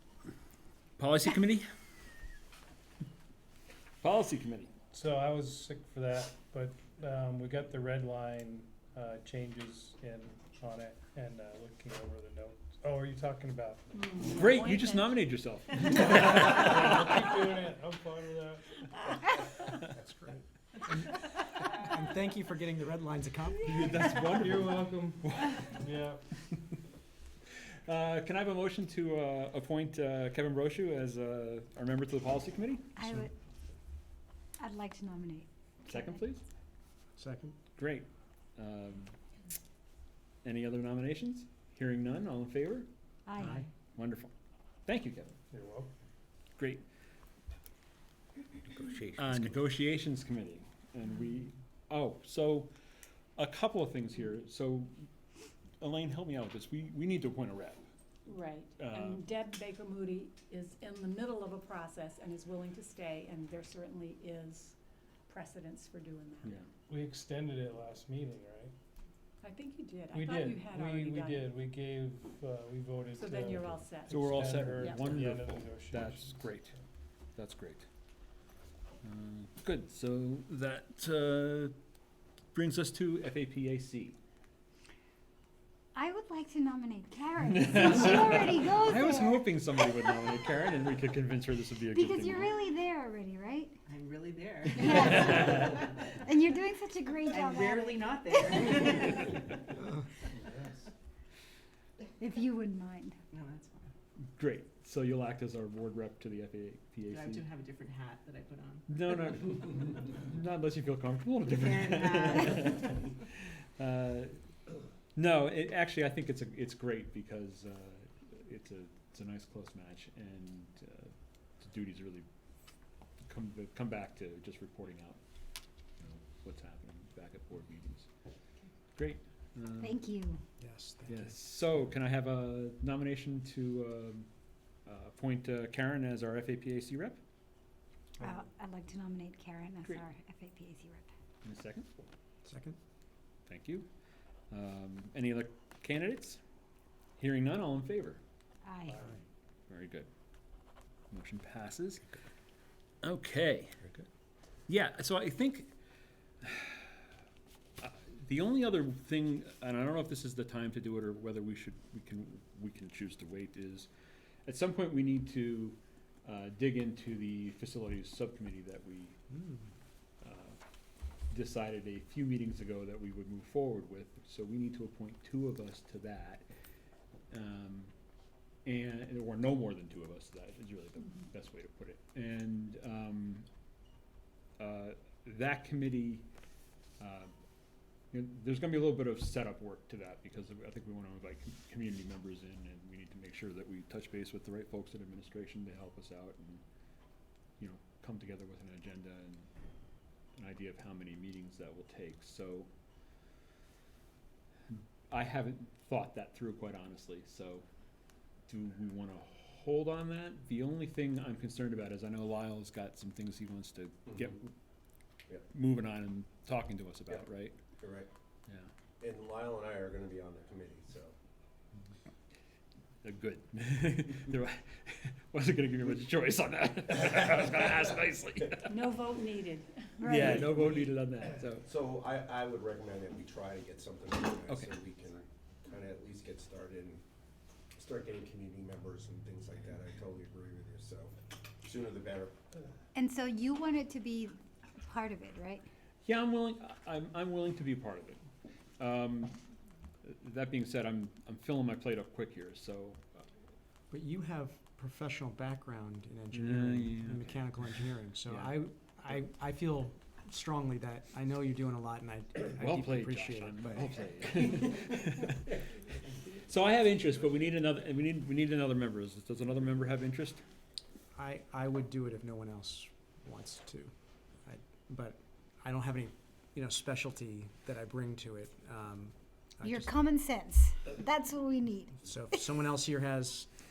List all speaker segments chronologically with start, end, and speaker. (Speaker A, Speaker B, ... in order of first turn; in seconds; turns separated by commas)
Speaker A: 1.0-1.7, Speaker A: 4.0-4.7, Speaker B: 4.9-14.0, Speaker C: 13.9-15.3, Speaker A: 14.3-17.4, Speaker B: 16.6-18.6, Speaker D: 20.9-23.8, Speaker A: 23.6-25.8, Speaker B: 24.1-26.2, Speaker A: 27.7-33.0, Speaker E: 33.0-33.3, Speaker E: 34.6-36.2, Speaker A: 35.9-36.4, Speaker D: 37.2-37.5, Speaker A: 37.8-39.1, Speaker A: 40.4-42.9, Speaker E: 43.3-43.6, Speaker D: 43.4-43.6, Speaker A: 44.0-44.3, Speaker A: 44.9-45.4, Speaker B: 45.5-45.9, Speaker A: 46.6-46.8, Speaker F: 48.7-49.4, Speaker A: 49.1-52.7, Speaker A: 53.4-55.0, Speaker A: 55.8-57.8, Speaker C: 58.2-64.8, Speaker A: 58.8-59.2, Speaker C: 65.3-66.5, Speaker B: 66.9-68.7, Speaker C: 69.4-71.5, Speaker B: 70.1-76.7, Speaker C: 73.1-75.2, Speaker A: 74.1-76.8, Speaker A: 77.3-77.8, Speaker A: 79.0-81.7, Speaker A: 82.5-84.2, Speaker E: 85.9-89.5, Speaker A: 87.5-92.6, Speaker E: 91.9-93.8, Speaker G: 93.9-96.2, Speaker E: 94.8-99.3, Speaker A: 94.9-95.8, Speaker G: 97.3-99.8, Speaker E: 102.2-103.2, Speaker G: 103.3-103.9, Speaker A: 104.3-107.4, Speaker G: 107.0-109.3, Speaker A: 108.9-114.4, Speaker G: 111.5-112.5, Speaker A: 115.1-122.2, Speaker A: 123.2-125.2, Speaker A: 126.0-128.1, Speaker A: 128.9-130.0, Speaker E: 129.8-130.4, Speaker D: 130.6-131.3, Speaker A: 131.1-134.3, Speaker A: 134.8-137.2, Speaker E: 138.2-141.1, Speaker A: 141.4-141.9, Speaker D: 142.4-142.8, Speaker A: 143.4-143.9, Speaker A: 144.5-146.4, Speaker A: 147.2-148.2, Speaker E: 148.6-149.1, Speaker A: 149.7-150.1, Speaker A: 151.1-152.1, Speaker A: 153.0-153.9, Speaker A: 154.7-155.7, Speaker A: 156.4-156.9, Speaker A: 157.8-163.9, Speaker A: 164.4-169.2, Speaker D: 169.3-169.6, Speaker A: 170.2-170.6, Speaker A: 171.3-176.4, Speaker A: 177.3-177.9, Speaker A: 178.6-183.4, Speaker A: 184.6-186.2, Speaker A: 187.0-187.3, Speaker A: 188.1-196.6, Speaker A: 197.6-199.5, Speaker A: 200.3-202.7, Speaker A: 204.7-207.6, Speaker A: 208.5-214.5, Speaker A: 215.5-217.6, Speaker F: 217.8-218.1, Speaker F: 219.0-221.1, Speaker A: 223.0-228.7, Speaker C: 228.6-229.9, Speaker E: 230.0-230.8, Speaker A: 230.1-231.7, Speaker F: 231.6-237.0, Speaker A: 234.5-234.7, Speaker F: 237.7-242.4, Speaker E: 242.9-245.6, Speaker A: 246.0-248.2, Speaker A: 248.8-249.4, Speaker A: 250.0-253.2, Speaker D: 253.9-264.1, Speaker A: 256.3-258.5, Speaker A: 262.6-265.6, Speaker A: 266.3-270.4, Speaker D: 271.1-279.9, Speaker E: 279.6-282.0, Speaker D: 282.0-283.5